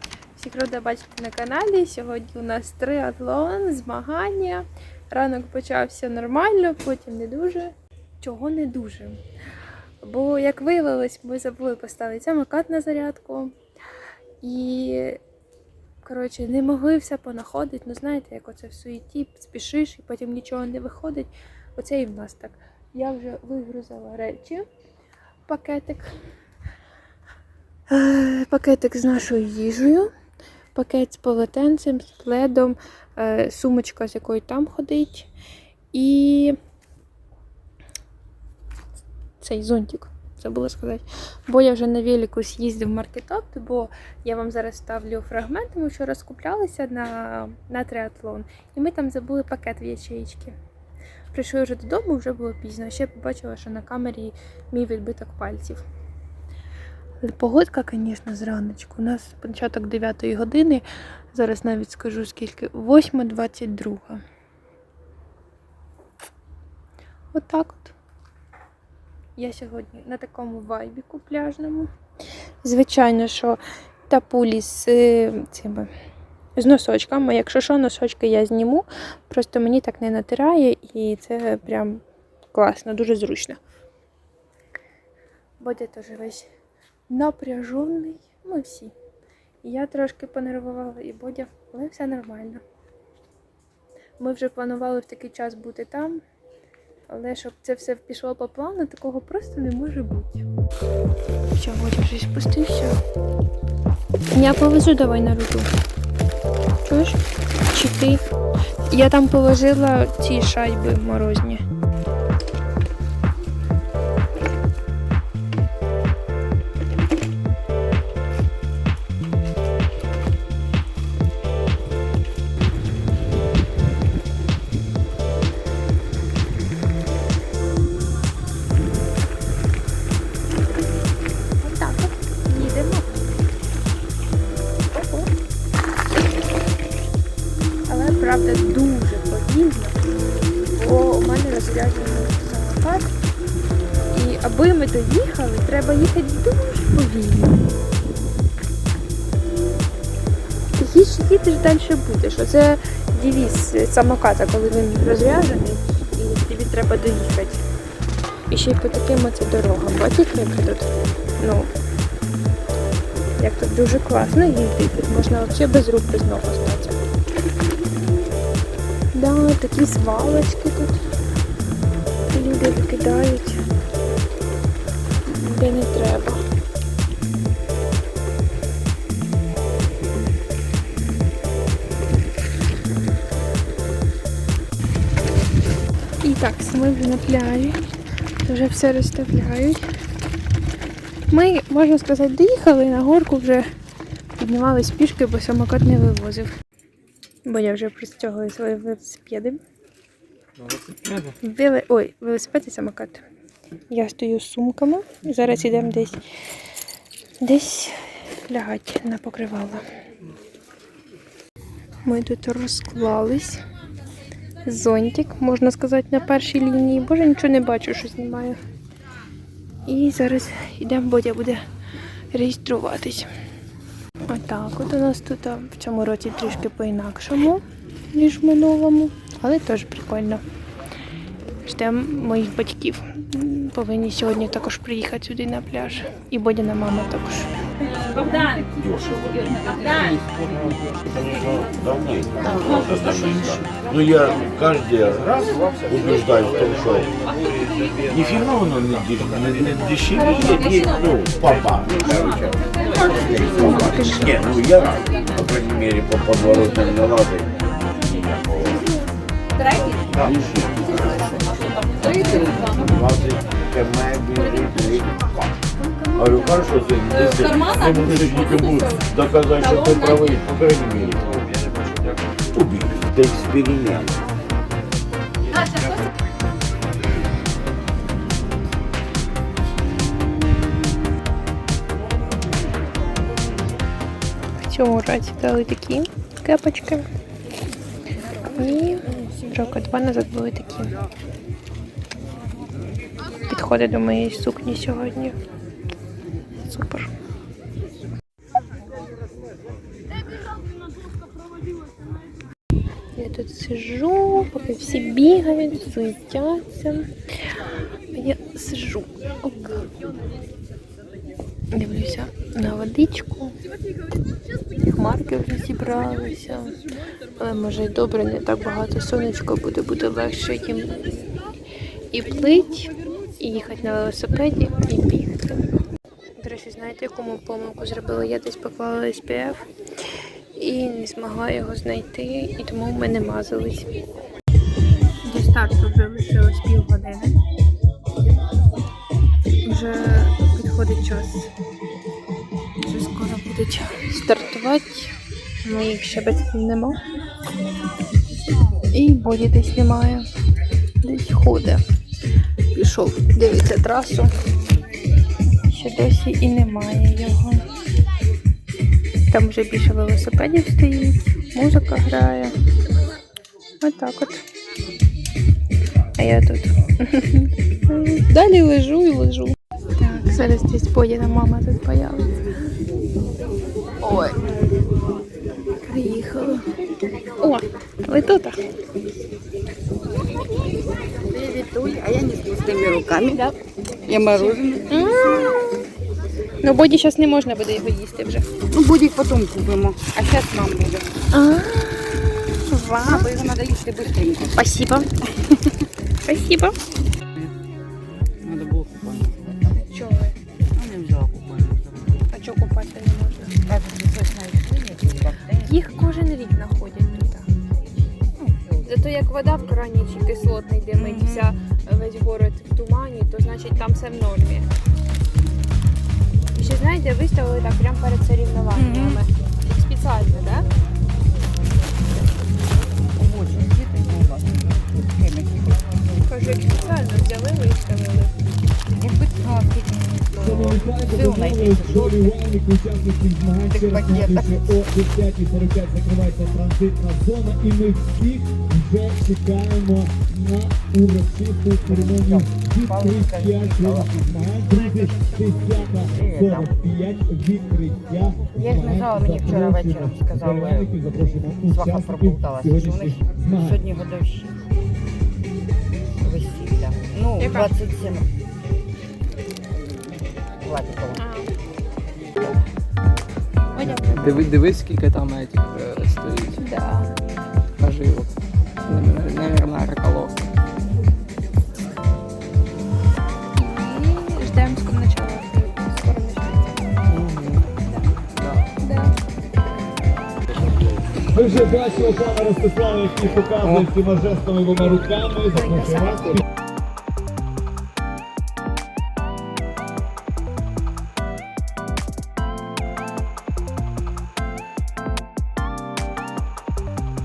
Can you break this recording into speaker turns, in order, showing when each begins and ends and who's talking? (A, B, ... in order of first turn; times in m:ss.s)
0:00.4-0:09.2 A
0:10.0-0:13.5 A
0:14.4-0:15.2 A
0:16.0-0:24.6 A
0:25.5-0:26.1 A
0:27.9-0:30.1 A
0:30.8-0:35.3 A
0:35.9-0:36.6 A
0:39.4-0:50.6 A
0:51.3-0:55.8 A
0:57.2-1:04.2 A
1:07.3-1:08.0 A
1:09.4-1:11.9 A
1:12.6-1:15.9 A
1:16.6-1:22.0 A
1:22.5-1:23.6 A
1:25.6-1:26.5 A
1:27.1-1:28.9 A
1:29.6-1:32.6 A
1:34.2-1:36.2 A
1:37.1-1:40.4 A
1:41.6-1:43.0 A
1:44.3-1:45.7 A
1:46.8-1:47.2 A
1:47.7-1:48.2 A
1:48.9-1:51.6 A
2:11.6-2:13.1 A
2:14.9-2:15.3 A
2:17.9-2:20.0 A
2:20.8-2:23.1 A
2:24.1-2:27.6 A
2:30.8-2:37.6 A
2:38.5-2:40.9 A
2:41.4-2:41.7 A
2:43.4-2:47.0 A
2:49.1-2:51.0 A
2:52.3-2:53.6 A
2:55.3-2:56.4 A
3:06.2-3:07.8 A
3:08.4-3:09.8 A
3:11.3-3:13.7 A
3:14.4-3:16.5 A
3:17.5-3:19.6 A
3:20.6-3:21.3 B
3:21.4-3:23.2 A
3:23.9-3:26.2 A
3:27.4-3:29.8 A
3:32.0-3:33.6 A
3:34.6-3:38.6 A
3:39.9-3:41.6 A
3:42.3-3:43.3 A
3:44.3-3:47.6 A
3:48.1-3:50.4 A
3:51.6-3:57.9 A
3:58.6-4:07.2 C
4:08.1-4:18.8 C
4:13.4-4:14.3 A
4:20.0-4:25.5 C
4:26.2-4:31.4 C
4:32.5-4:34.1 C
4:44.6-4:47.1 A
4:48.5-4:50.9 A
4:53.5-4:55.4 A
4:56.7-4:57.1 A
5:03.2-5:07.1 A
5:08.1-5:09.9 A
5:11.7-5:13.5 A
5:14.8-5:16.8 A
5:17.4-5:21.1 A
5:22.1-5:25.8 A
5:26.4-5:29.7 A
5:30.6-5:33.9 A
5:35.2-5:37.4 A
5:39.6-5:41.5 A
5:42.8-5:45.1 A
5:45.6-5:47.0 A
5:48.9-5:50.3 A
5:51.0-5:51.8 A
5:52.7-5:54.3 A
5:55.7-5:57.6 A
5:59.3-6:02.5 A
6:03.8-6:04.4 A
6:06.2-6:12.5 A
6:14.0-6:14.4 A
6:15.9-6:16.7 A
6:17.4-6:18.6 A
6:21.3-6:23.4 D
6:24.1-6:24.9 D
6:24.4-6:25.8 A
6:26.6-6:28.5 A
6:28.7-6:31.1 D
6:31.3-6:33.3 A
6:33.0-6:34.7 D
6:34.6-6:35.2 A
6:36.3-6:36.8 A
6:38.4-6:39.8 D
6:39.7-6:40.4 A
6:40.8-6:42.2 D
6:42.3-6:43.5 A
6:43.7-6:45.9 D
6:45.6-6:47.5 A
6:48.4-6:49.0 D
6:48.8-6:54.7 A
6:56.6-7:00.7 A
7:03.2-7:06.6 D
7:06.3-7:08.3 A
7:08.9-7:12.3 D
7:10.4-7:33.8 E
7:13.7-7:14.6 D
7:21.9-7:24.1 D
7:24.7-7:26.8 D
7:28.5-7:31.0 D
7:31.7-7:34.5 D
7:36.2-7:38.3 D
7:37.4-7:37.7 A
7:40.6-7:41.2 D
7:41.2-7:41.5 A
7:43.8-7:44.5 A
7:44.2-7:46.6 B
7:46.6-7:47.1 A
7:47.8-7:48.3 B
7:48.8-7:50.4 B
7:53.6-7:56.8 A
7:57.1-7:57.6 B
7:58.4-7:58.7 B
7:58.8-7:59.1 A
8:01.3-8:06.4 E
8:05.5-8:06.4 A